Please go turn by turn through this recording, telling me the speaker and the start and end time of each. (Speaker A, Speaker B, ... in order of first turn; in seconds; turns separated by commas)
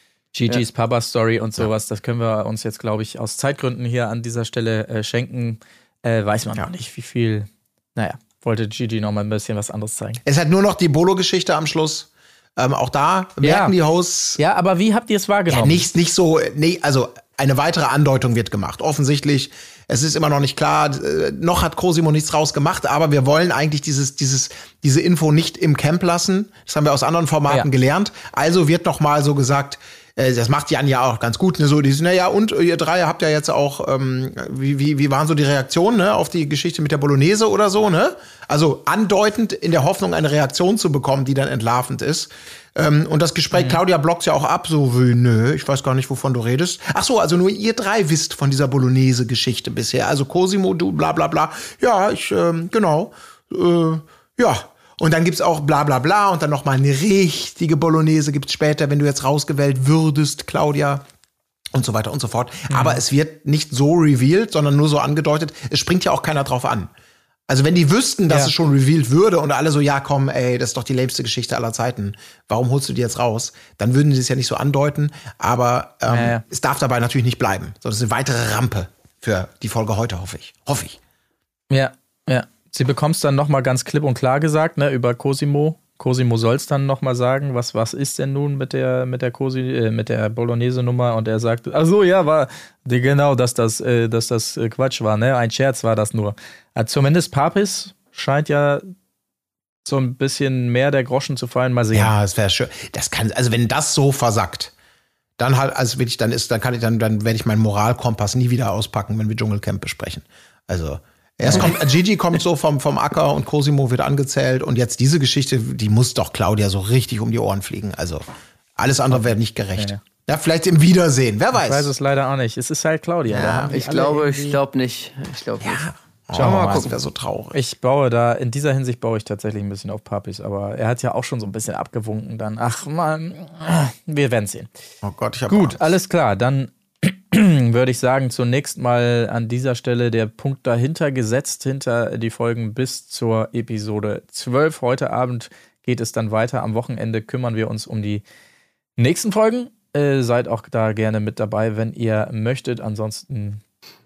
Speaker A: 0.3-10.2, Speaker B: 10.2-14.4, Speaker A: 13.4-13.7, Speaker A: 14.4-15.9, Speaker B: 15.5-61.0, Speaker A: 43.5-43.8, Speaker B: 61.7-66.9, Speaker A: 62.7-63.0, Speaker B: 67.5-81.0, Speaker A: 68.3-68.5, Speaker A: 76.0-76.4, Speaker A: 81.7-98.8, Speaker A: 99.8-102.1, Speaker B: 101.9-104.7, Speaker B: 105.4-118.2, Speaker A: 111.4-111.8, Speaker B: 118.8-121.9, Speaker A: 119.8-120.0, Speaker A: 121.6-124.6, Speaker B: 123.3-123.7, Speaker C: 123.7-126.9, Speaker B: 125.6-127.5, Speaker A: 126.4-126.9, Speaker A: 127.5-134.7, Speaker B: 135.0-135.8, Speaker A: 135.5-148.2, Speaker A: 149.0-153.6